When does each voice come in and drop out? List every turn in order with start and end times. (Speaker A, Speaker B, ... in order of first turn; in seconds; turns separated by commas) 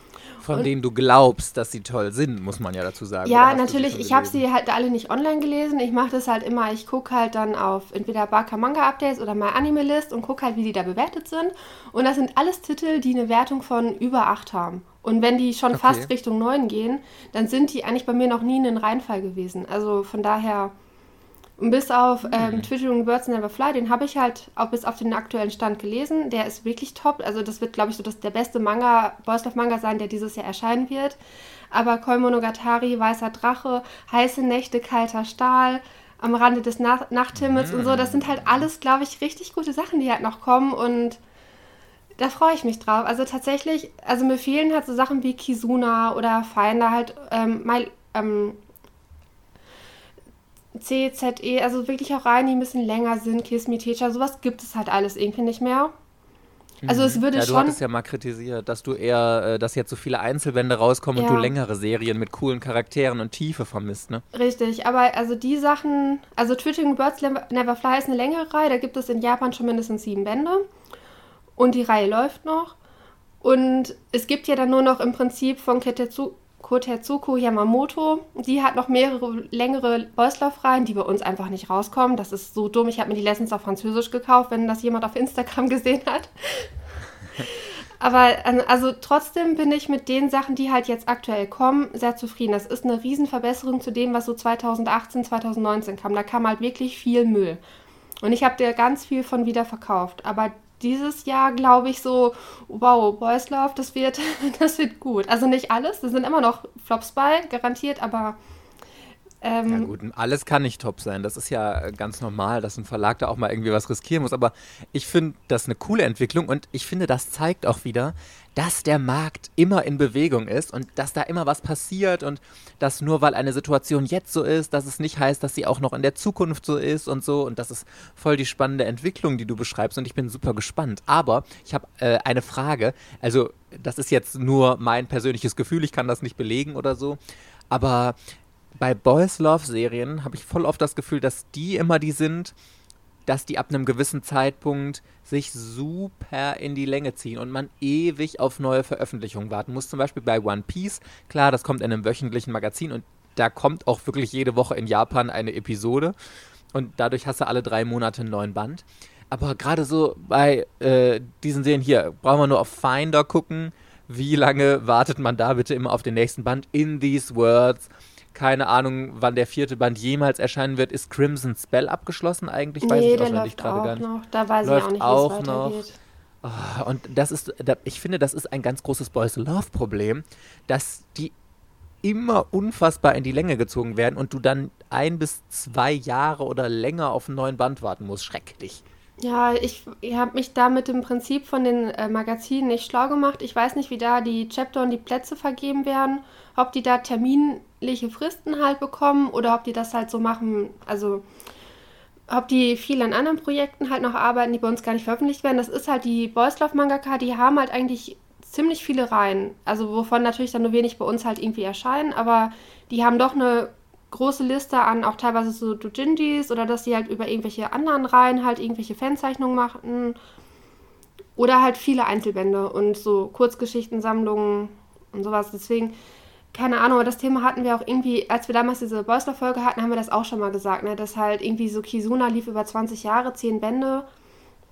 Speaker A: 0.4-4.4, Speaker B: 3.2-20.7, Speaker A: 15.7-16.1, Speaker B: 21.6-31.2, Speaker A: 22.3-22.7, Speaker B: 31.7-41.2, Speaker A: 37.4-38.6, Speaker B: 42.2-48.6, Speaker B: 50.7-55.9, Speaker A: 56.8-64.2, Speaker B: 56.9-57.8, Speaker B: 61.1-61.5, Speaker B: 64.3-70.6, Speaker B: 71.6-72.7, Speaker B: 73.4-86.7, Speaker B: 87.4-97.6, Speaker B: 98.2-108.4, Speaker B: 109.4-109.9, Speaker A: 109.7-137.2, Speaker A: 137.7-138.2, Speaker A: 138.8-142.5, Speaker A: 143.3-156.1, Speaker A: 156.7-174.0, Speaker B: 172.8-176.0, Speaker A: 174.6-175.8, Speaker A: 176.4-181.3, Speaker A: 182.0-188.8, Speaker B: 189.2-201.2, Speaker B: 202.3-220.2, Speaker B: 221.3-225.9, Speaker B: 226.5-234.1